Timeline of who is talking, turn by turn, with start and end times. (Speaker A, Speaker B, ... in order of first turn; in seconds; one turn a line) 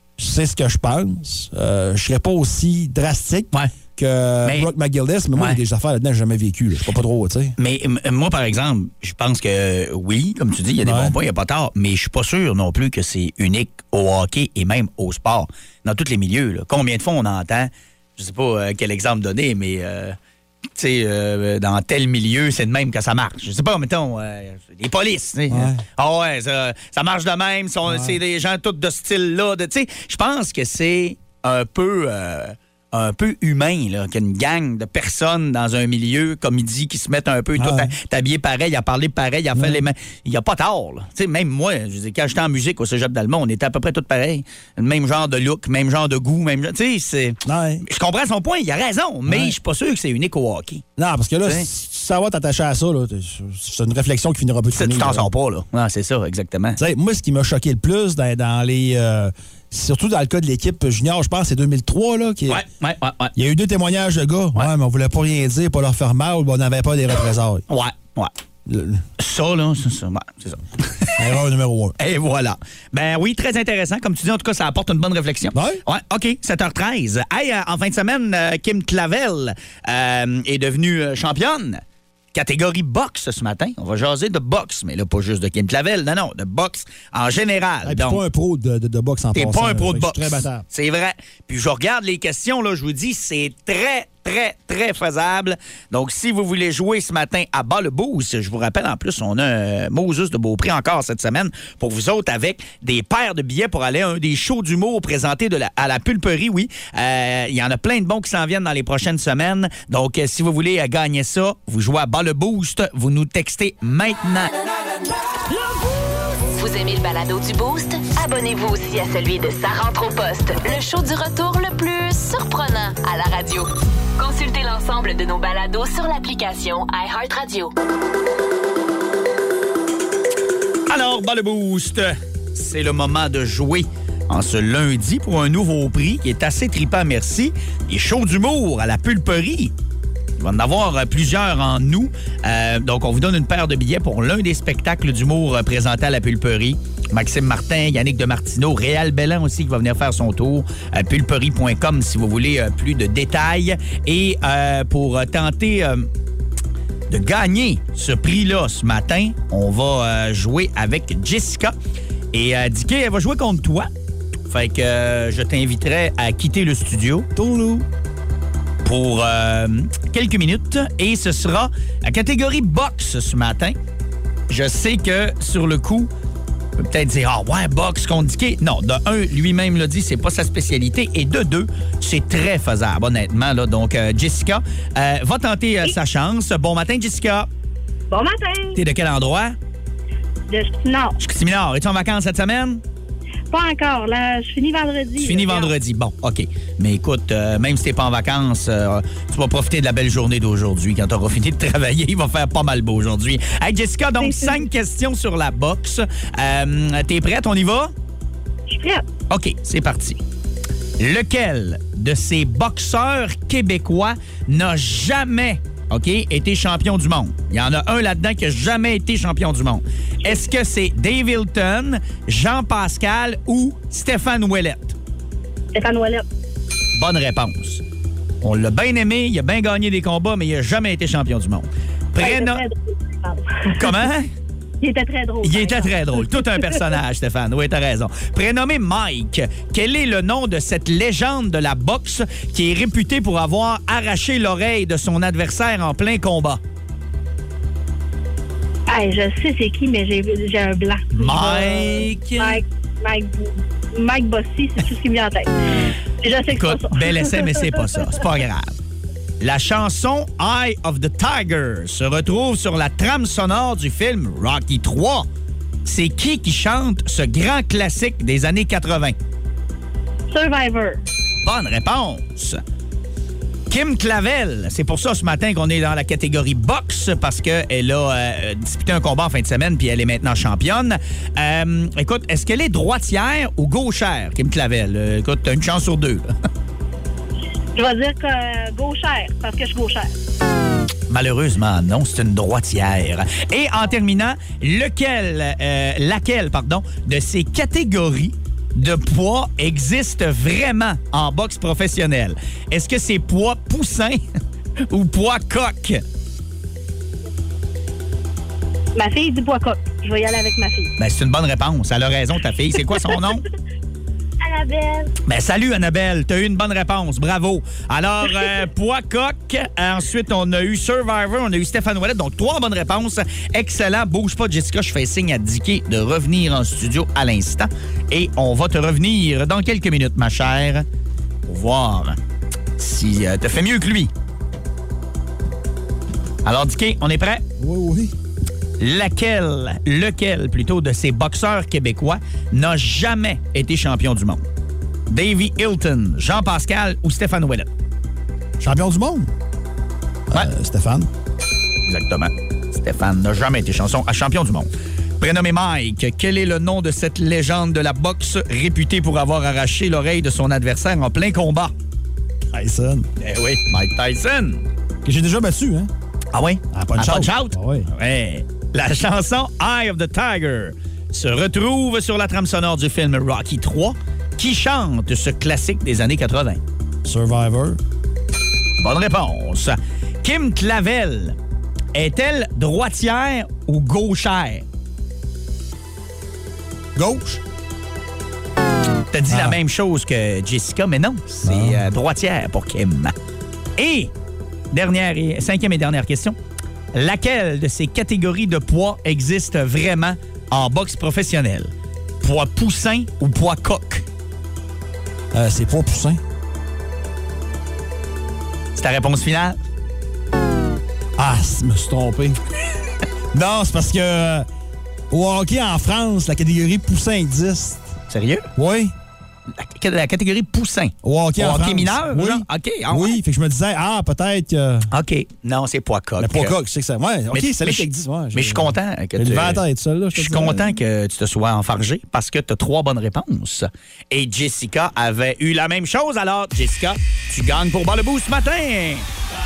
Speaker A: 0.2-7.5
Speaker B: 4.4-4.7
Speaker B: 7.6-20.2
Speaker A: 10.8-11.2
Speaker B: 20.8-50.8
Speaker A: 25.5-25.8
Speaker A: 27.9-28.2
Speaker A: 37.6-37.9
Speaker A: 39.5-39.8
Speaker A: 47.5-47.8
Speaker A: 49.3-49.6
Speaker A: 51.0-55.3
Speaker B: 54.8-56.8
Speaker A: 56.8-62.6
Speaker B: 62.5-63.4
Speaker A: 63.4-67.7
Speaker B: 67.7-68.3
Speaker A: 68.7-69.0
Speaker B: 69.2-71.3
Speaker A: 71.2-72.0
Speaker B: 72.0-81.8
Speaker A: 75.5-75.8
Speaker B: 82.3-88.2
Speaker A: 87.8-90.6
Speaker B: 89.3-114.5
Speaker C: 116.5-127.7
Speaker B: 130.9-139.7
Speaker B: 140.4-156.1
Speaker B: 157.1-161.7
Speaker B: 162.3-163.9
Speaker B: 164.5-167.3
Speaker A: 167.3-167.9
Speaker B: 168.8-173.8
Speaker B: 174.5-176.1
Speaker B: 176.8-187.5
Speaker D: 188.1-188.8
Speaker B: 188.8-189.6
Speaker D: 190.5-191.2
Speaker B: 191.2-192.8
Speaker D: 193.5-195.7
Speaker B: 195.2-207.9
Speaker D: 204.2-204.6
Speaker D: 208.7-209.0
Speaker B: 209.3-210.2
Speaker B: 211.0-224.9
Speaker D: 225.7-226.2
Speaker B: 227.0-227.8
Speaker B: 228.4-232.6
Speaker D: 232.2-234.0
Speaker B: 233.8-234.3
Speaker D: 234.8-236.7
Speaker B: 235.4-246.6
Speaker D: 248.9-255.5
Speaker B: 251.1-252.6
Speaker D: 256.2-258.1
Speaker B: 256.5-258.8
Speaker B: 259.4-265.3
Speaker B: 265.9-269.2
Speaker D: 270.3-271.0
Speaker B: 271.4-272.6
Speaker B: 273.7-286.3
Speaker D: 287.7-290.1
Speaker B: 291.1-304.2
Speaker B: 304.9-306.0
Speaker D: 308.9-310.9
Speaker B: 311.0-313.4
Speaker D: 312.8-313.3
Speaker D: 314.4-315.1
Speaker B: 315.3-330.9
Speaker B: 331.5-332.2
Speaker B: 332.8-334.1
Speaker B: 336.4-337.4
Speaker A: 337.6-338.1
Speaker B: 338.8-344.4
Speaker B: 345.1-347.7
Speaker A: 348.6-349.3
Speaker A: 350.3-351.1
Speaker B: 351.9-354.7
Speaker B: 355.2-361.7
Speaker A: 362.5-363.1
Speaker B: 363.2-364.6
Speaker A: 365.1-365.9
Speaker B: 366.3-376.6
Speaker A: 366.7-367.9
Speaker A: 377.0-377.8
Speaker B: 378.8-381.4
Speaker B: 381.9-384.6
Speaker A: 386.9-387.4
Speaker B: 389.1-393.1
Speaker A: 389.3-389.6
Speaker A: 391.4-391.8
Speaker B: 393.8-394.1
Speaker B: 394.7-396.4
Speaker B: 396.9-404.1
Speaker A: 405.3-406.2
Speaker B: 408.8-409.6
Speaker A: 411.2-412.4
Speaker A: 413.3-414.5
Speaker A: 415.1-417.9
Speaker B: 418.1-418.5
Speaker A: 418.6-418.9
Speaker B: 419.6-423.2
Speaker A: 421.0-424.9
Speaker B: 424.9-426.5
Speaker A: 426.2-430.7
Speaker B: 427.3-429.6
Speaker B: 430.1-439.1